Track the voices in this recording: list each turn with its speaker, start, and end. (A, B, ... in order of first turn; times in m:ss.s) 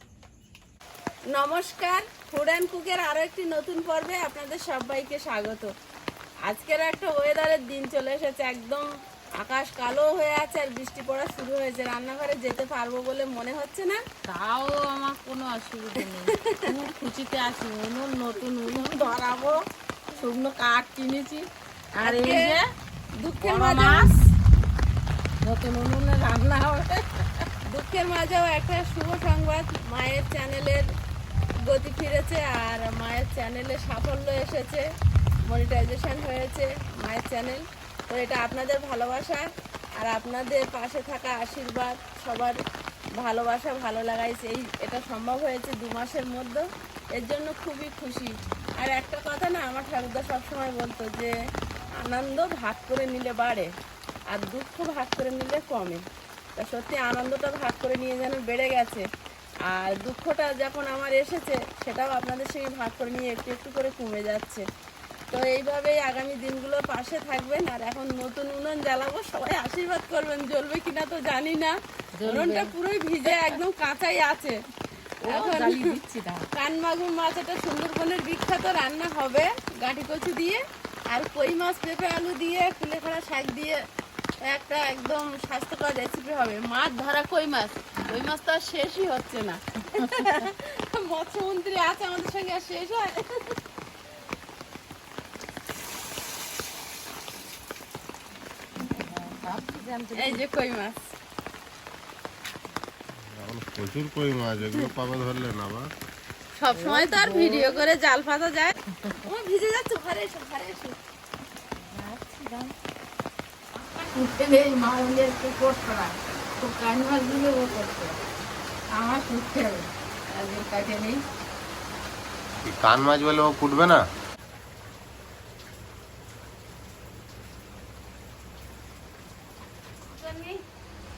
0:01.3-0:05.7 A
0:06.4-0:08.8 A
0:09.4-0:14.0 A
0:14.2-0:21.4 B
0:22.0-0:22.6 B
0:22.0-0:22.6 A
0:23.2-0:24.1 A
0:23.4-0:24.2 B
0:25.4-0:27.5 B
0:27.6-0:30.9 A
0:31.6-0:34.9 A
0:35.4-0:39.4 A
0:40.0-0:42.6 A
0:43.2-0:51.3 A
0:52.0-0:53.7 A
0:54.3-0:56.0 A
0:56.6-0:59.0 A
0:59.7-1:04.6 A
1:05.3-1:11.7 A
1:12.2-1:12.7 B
1:12.2-1:14.6 A
1:13.2-1:13.6 B
1:15.2-1:16.5 B
1:15.2-1:15.8 A
1:16.5-1:23.8 A
1:24.4-1:33.6 A
1:38.8-1:40.4 B
1:40.1-1:41.1 A
1:43.3-1:45.9 C
1:46.5-1:51.0 A
1:46.7-1:47.8 B
1:48.9-1:49.3 B
1:51.7-1:52.7 B
1:53.7-1:58.2 B
1:58.9-2:01.2 B
2:02.6-2:04.0 C
2:10.0-2:10.6 A